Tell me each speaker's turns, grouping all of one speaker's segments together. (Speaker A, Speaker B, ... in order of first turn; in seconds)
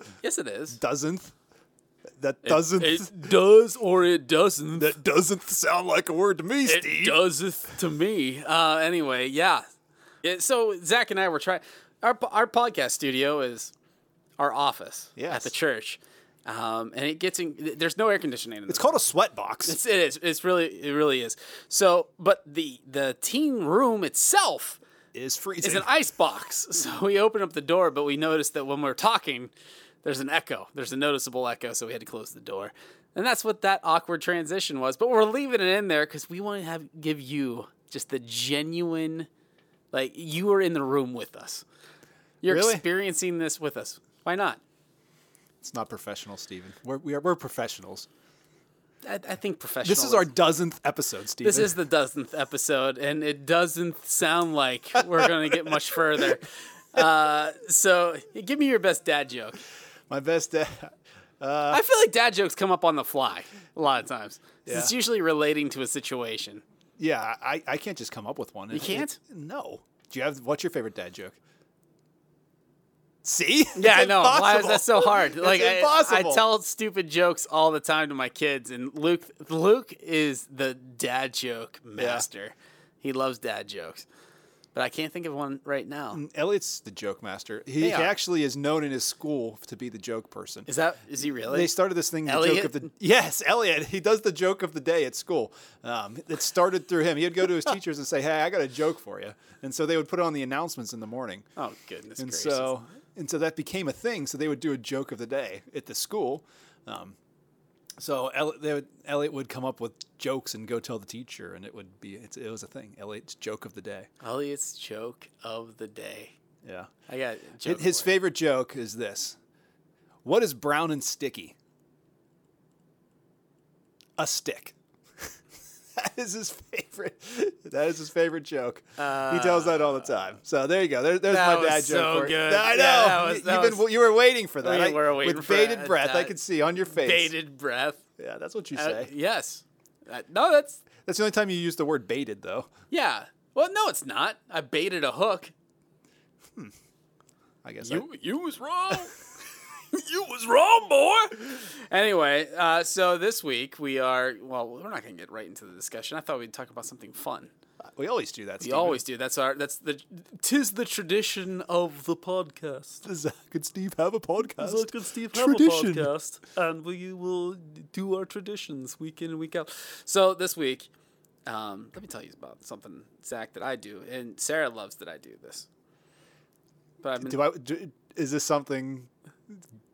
Speaker A: 0.2-0.8, 2.4-4.9, 6.7-9.6, 10.2-13.7, 14.4-19.1, 19.6-24.8, 25.6-39.3, 39.9-41.6, 42.4-44.6, 49.0-50.3, 51.4-59.6, 61.7-66.6, 68.7-69.2, 73.8-84.1, 84.7-86.2, 87.8-88.2, 90.7-91.7, 92.2-92.9, 101.6-102.7, 114.2-116.3, 117.1-118.1, 129.0-130.3, 131.3-133.9, 134.6-136.4, 136.9-138.0, 138.8-140.9, 142.9-145.5, 147.8-149.2, 149.9-157.5, 158.6-163.1, 164.6-170.9, 171.5-175.7, 177.0-177.4
Speaker B: 0.7-1.3, 2.2-3.1, 4.8-7.2, 15.2-15.5, 18.7-19.8, 25.1-25.9, 42.5-42.9, 45.6-48.1, 49.8-51.7, 60.1-61.8, 64.7-64.9, 67.0-71.4, 73.2-76.4, 82.0-82.2, 86.1-90.7, 91.5-101.5, 102.2-107.2, 108.0-114.1, 116.6-116.9, 117.7-119.4, 120.2-121.5, 124.2-125.3, 126.0-137.3, 138.2-139.1, 141.1-142.7, 147.6-148.1, 157.9-159.0, 163.0-166.1, 177.2-179.6